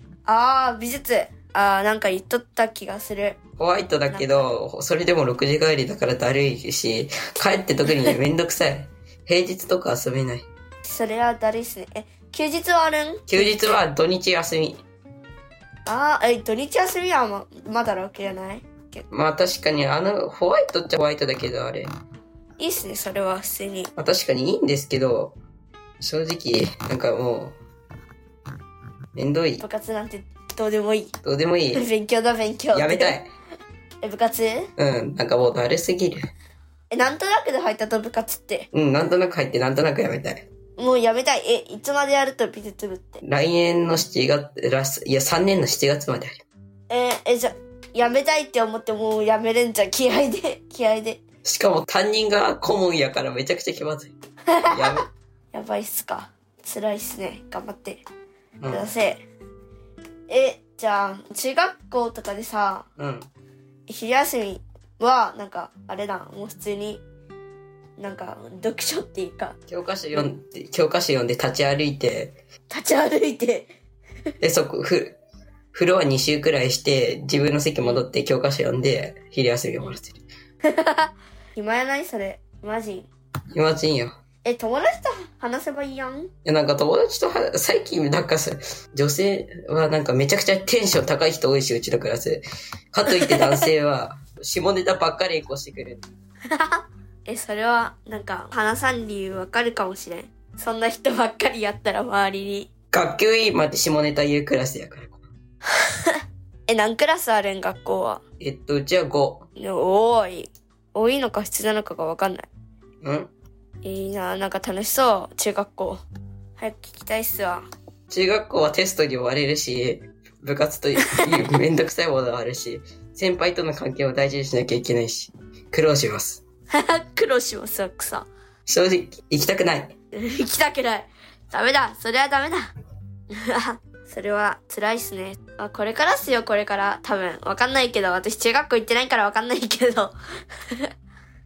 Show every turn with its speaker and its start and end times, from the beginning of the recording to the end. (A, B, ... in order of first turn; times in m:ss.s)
0:00.2-0:03.4 A
0:03.6-0:10.4 B
0:04.1-0:04.4 A
0:10.8-0:13.8 A
0:13.3-0:14.8 B
0:15.8-0:19.0 A
0:19.1-0:21.9 B
0:22.6-0:23.9 A
0:24.0-0:25.4 B
0:26.0-0:27.5 B
0:29.1-0:29.6 B
0:29.6-0:31.1 A
0:31.2-0:31.8 B
0:31.7-0:33.2 A
0:32.7-0:33.3 B
0:34.0-0:34.7 A
0:34.8-0:36.3 B
0:36.9-0:38.7 A
0:38.7-0:40.4 B
0:40.8-0:43.2 A
0:43.2-0:46.4 B
0:46.9-0:51.2 A
0:51.4-0:54.1 B
0:54.5-0:54.8 A
0:54.7-0:55.1 B
0:55.5-0:58.0 A
0:58.6-0:58.9 B
0:58.7-0:59.2 A
1:00.3-1:02.9 A
1:03.0-1:03.3 B
1:03.9-1:07.0 A
1:08.0-1:09.6 A
1:09.7-1:12.4 B
1:12.7-1:13.7 A
1:14.4-1:15.2 B
1:15.7-1:20.2 B
1:20.7-1:23.1 A
1:23.5-1:24.1 B
1:24.4-1:26.3 A
1:26.4-1:36.1 B
1:33.1-1:33.7 A
1:36.5-1:42.7 A
1:42.9-1:45.2 B
1:46.0-1:48.2 A
1:48.4-1:49.5 B
1:49.6-1:52.5 A
1:53.0-1:53.3 B
1:53.8-1:56.0 A
1:56.6-1:57.6 A
1:58.1-2:06.4 B
2:06.7-2:08.3 A
2:08.7-2:09.9 B
2:10.1-2:12.7 A
2:13.3-2:20.1 A